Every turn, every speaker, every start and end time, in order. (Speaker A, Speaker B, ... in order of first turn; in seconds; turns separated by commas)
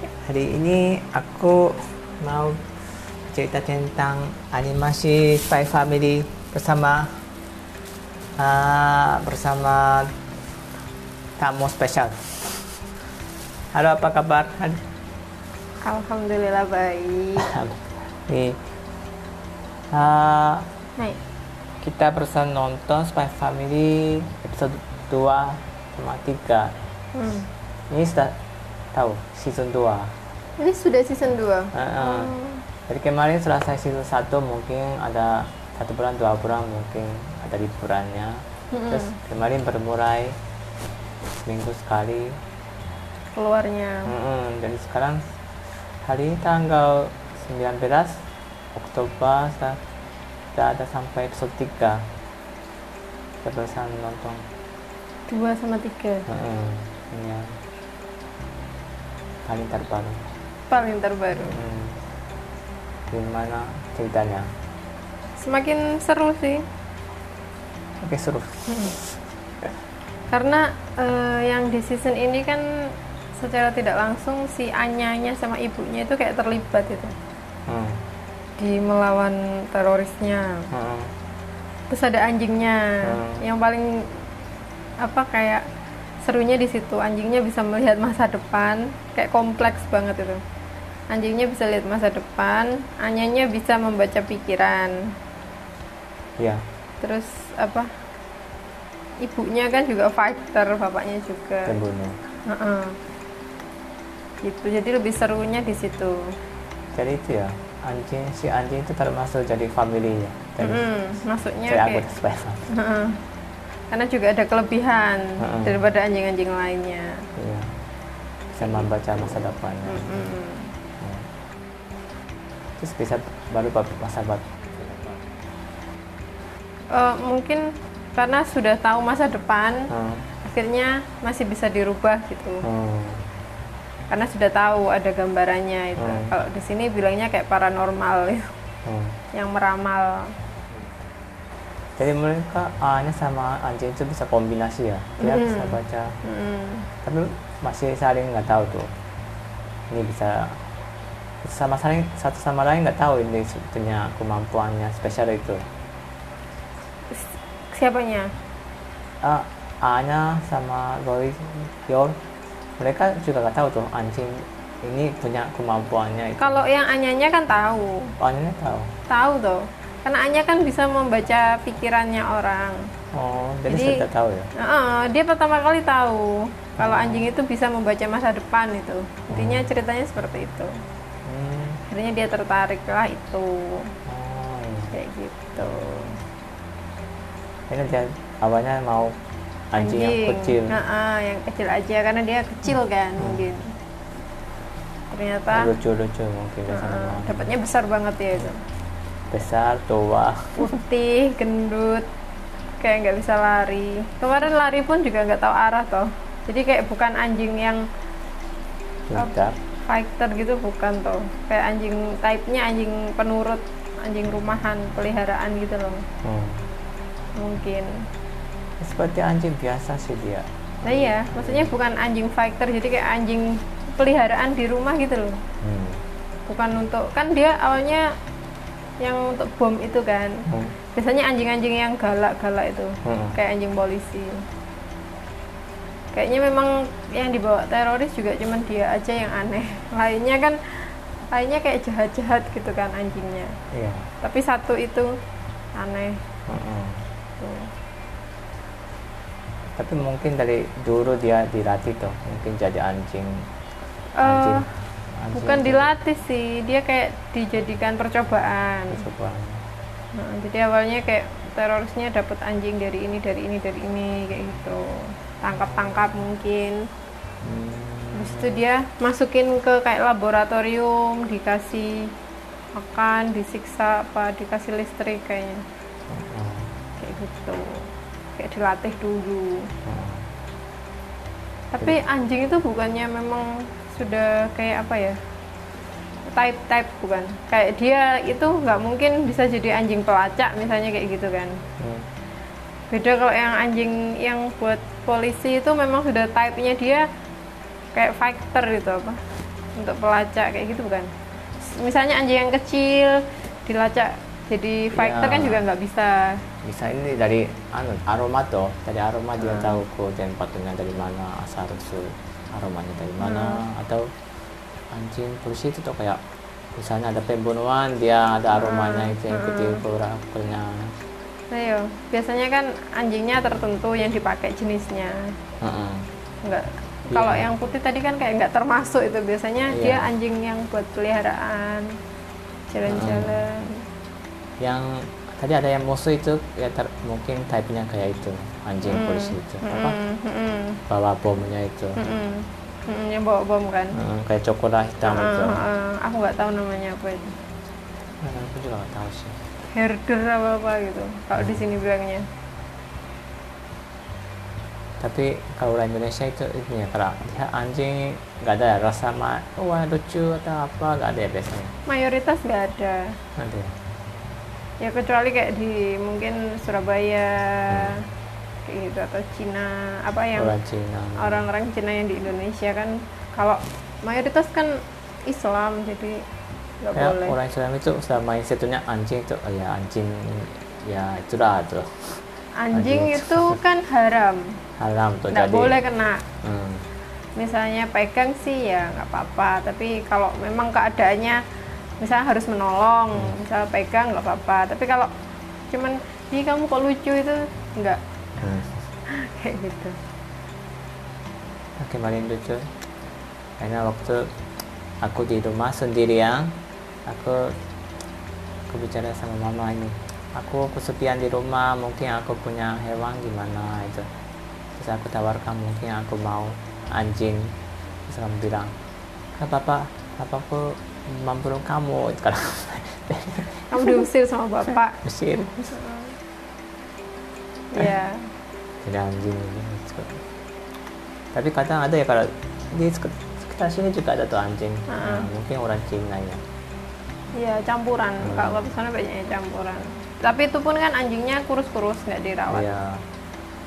Speaker A: 0.2-2.6, Speaker A: 3.3-7.1, Speaker A: 8.4-10.1, Speaker A: 11.4-12.7, Speaker A: 13.7-14.8, Speaker B: 15.8-17.5, Speaker A: 17.4-18.6, Speaker A: 19.9-20.7, Speaker A: 21.8-26.7, Speaker B: 27.1-27.5, Speaker A: 27.9-28.4, Speaker A: 28.9-30.1, Speaker B: 30.6-32.6, Speaker A: 31.7-32.4, Speaker A: 32.9-40.4, Speaker B: 38.7-39.2, Speaker A: 41.5-42.4, Speaker B: 43.4-44.1, Speaker A: 44.1-45.2, Speaker A: 46.0-48.2, Speaker A: 48.8-49.8, Speaker A: 50.5-52.1, Speaker A: 53.4-54.4, Speaker B: 55.3-56.3, Speaker A: 56.3-57.5, Speaker A: 59.5-60.2, Speaker B: 60.7-61.6, Speaker A: 61.5-62.0, Speaker A: 63.1-64.5, Speaker B: 65.4-66.7, Speaker A: 68.0-69.1, Speaker B: 68.7-68.9, Speaker B: 70.3-72.6, Speaker B: 73.4-77.2, Speaker A: 77.7-78.0, Speaker B: 78.6-80.7, Speaker A: 80.7-81.1, Speaker B: 81.9-84.1, Speaker A: 83.0-83.5, Speaker B: 85.0-85.7, Speaker B: 86.2-90.4, Speaker B: 91.1-95.0, Speaker B: 97.0-97.9, Speaker B: 99.2-101.8, Speaker A: 101.7-102.2, Speaker B: 102.5-103.0, Speaker B: 104.4-106.2, Speaker A: 107.0-110.9, Speaker B: 110.6-112.0, Speaker A: 111.7-112.7, Speaker B: 112.7-113.2, Speaker B: 113.9-117.2, Speaker A: 115.4-115.8, Speaker A: 117.4-117.7, Speaker A: 118.5-120.3, Speaker B: 118.6-118.9, Speaker B: 119.9-120.7, Speaker A: 121.0-121.3, Speaker A: 122.8-125.2, Speaker B: 126.9-129.9, Speaker A: 129.9-130.2, Speaker B: 130.4-132.6, Speaker A: 132.6-133.3, Speaker B: 134.1-138.5, Speaker A: 136.0-136.3, Speaker A: 138.9-139.2, Speaker B: 139.3-140.3, Speaker A: 142.0-146.2, Speaker B: 145.2-146.9, Speaker A: 147.0-148.9, Speaker A: 149.9-150.6, Speaker A: 151.4-155.7, Speaker B: 157.1-158.3, Speaker A: 159.2-162.2, Speaker A: 162.8-166.7, Speaker B: 166.4-168.1, Speaker A: 168.2-168.9, Speaker B: 169.1-172.8, Speaker A: 173.1-174.5, Speaker B: 173.7-174.0, Speaker B: 174.6-180.7, Speaker A: 176.8-177.3, Speaker A: 179.3-179.7, Speaker A: 181.3-181.8, Speaker B: 181.9-183.9, Speaker A: 184.1-185.0, Speaker B: 184.9-186.2, Speaker A: 187.7-189.2, Speaker A: 189.7-190.8, Speaker B: 189.8-193.8, Speaker A: 193.2-193.4, Speaker B: 195.1-195.7, Speaker A: 195.5-197.5, Speaker B: 196.7-198.6, Speaker A: 199.3-200.7, Speaker B: 200.6-202.1, Speaker B: 202.8-207.8, Speaker A: 209.1-209.6, Speaker B: 209.9-216.0, Speaker A: 216.2-216.7, Speaker B: 217.4-217.9, Speaker A: 218.8-221.8, Speaker B: 220.8-225.4, Speaker A: 225.6-226.0, Speaker B: 226.5-228.1, Speaker B: 229.0-230.4, Speaker A: 230.5-230.8, Speaker B: 230.9-234.4, Speaker A: 233.0-233.4, Speaker B: 236.1-243.6, Speaker A: 243.7-244.1, Speaker B: 244.2-245.1, Speaker B: 245.8-246.2, Speaker A: 246.5-247.1, Speaker B: 247.4-247.7, Speaker A: 249.8-253.4, Speaker B: 254.2-254.7, Speaker A: 254.2-254.7, Speaker A: 255.2-255.9, Speaker B: 255.3-259.0, Speaker A: 258.9-259.6, Speaker B: 260.1-266.8, Speaker A: 267.4-268.6, Speaker B: 268.2-272.0, Speaker B: 272.8-275.6, Speaker A: 276.1-276.7, Speaker B: 277.0-279.7, Speaker A: 279.9-280.3, Speaker B: 281.7-285.2, Speaker B: 286.3-291.6, Speaker A: 291.8-292.1, Speaker B: 292.9-297.1, Speaker B: 297.9-299.2, Speaker B: 299.8-301.1, Speaker B: 301.6-306.4, Speaker A: 304.9-305.6, Speaker A: 306.6-314.1, Speaker B: 309.4-309.8, Speaker B: 313.2-313.6, Speaker A: 314.9-316.2, Speaker A: 316.8-320.9, Speaker B: 318.5-319.8, Speaker B: 321.5-325.2, Speaker A: 325.6-326.1, Speaker B: 326.4-331.9, Speaker A: 327.1-327.5, Speaker A: 329.7-330.1, Speaker B: 332.7-333.8, Speaker A: 332.9-333.4, Speaker A: 334.6-340.0, Speaker B: 338.9-340.8, Speaker A: 340.9-342.0, Speaker B: 342.0-344.0, Speaker A: 343.9-345.6, Speaker B: 345.0-347.3, Speaker A: 348.2-349.4, Speaker B: 349.7-352.2, Speaker A: 351.4-351.6, Speaker A: 355.0-361.7, Speaker B: 361.9-363.2, Speaker A: 363.4-363.7, Speaker B: 364.8-368.0, Speaker A: 367.7-368.0, Speaker B: 368.6-370.6, Speaker A: 370.4-371.4, Speaker B: 371.2-374.8, Speaker B: 375.3-376.2, Speaker B: 376.8-377.4, Speaker A: 376.9-382.2, Speaker B: 382.6-384.6, Speaker A: 382.7-383.6, Speaker A: 384.8-385.8, Speaker B: 385.3-386.2, Speaker A: 386.4-386.9, Speaker B: 387.4-391.4, Speaker B: 392.0-395.1, Speaker B: 395.7-398.0, Speaker A: 398.4-398.8, Speaker B: 399.2-400.0, Speaker A: 401.8-402.6, Speaker A: 403.6-404.3, Speaker A: 405.0-406.6, Speaker A: 407.1-407.6, Speaker A: 408.7-414.1, Speaker A: 414.8-417.6, Speaker A: 418.1-418.7, Speaker A: 419.4-424.1, Speaker B: 423.7-425.0, Speaker A: 425.0-425.7, Speaker B: 425.7-426.1, Speaker B: 427.7-428.3, Speaker A: 428.8-430.2, Speaker A: 431.3-436.4, Speaker B: 434.9-435.3, Speaker B: 437.4-442.7, Speaker A: 438.2-438.7, Speaker A: 442.5-443.0